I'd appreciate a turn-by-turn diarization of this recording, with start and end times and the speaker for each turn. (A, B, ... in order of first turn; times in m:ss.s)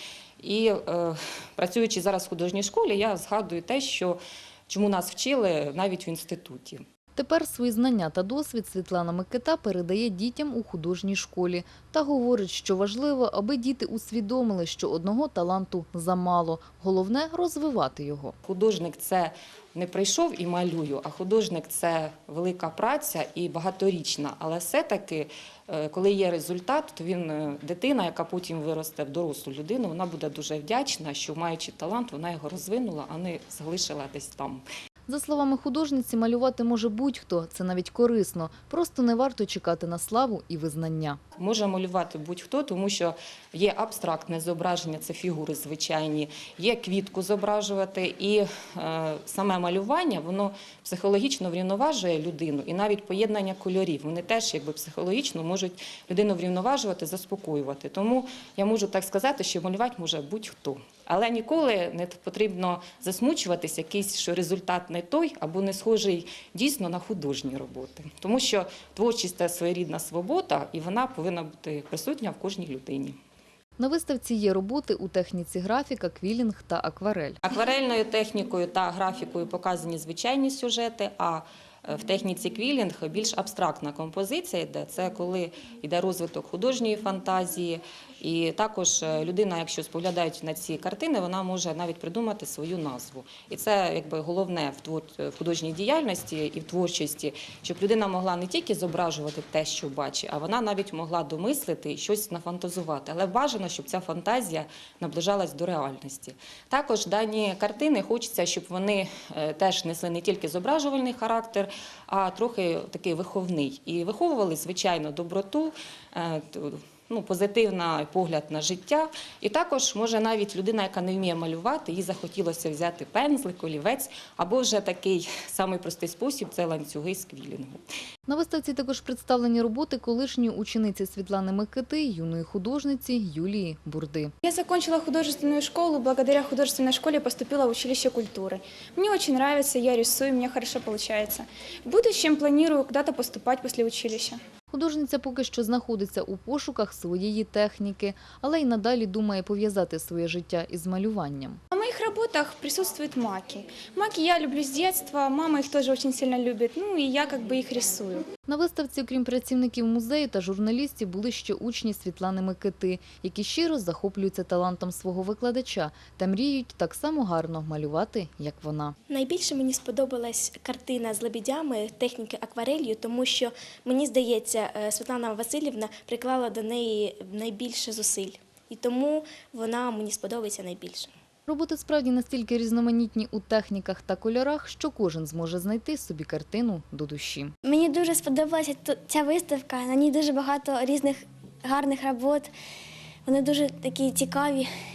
0:00.4-0:06.8 A
0:07.1-0:18.3 B
0:18.4-0:34.6 A
0:35.1-0:41.2 B
0:41.4-1:13.2 A
1:13.8-1:17.4 B
1:17.4-2:07.8 A
2:08.3-2:14.3 B
2:14.4-2:24.4 C
2:24.7-2:31.6 B
2:31.7-2:38.3 C
2:38.5-2:48.9 B
2:49.1-3:01.1 D
3:01.5-3:07.5 B
3:07.6-3:12.5 E
3:13.2-3:14.7 E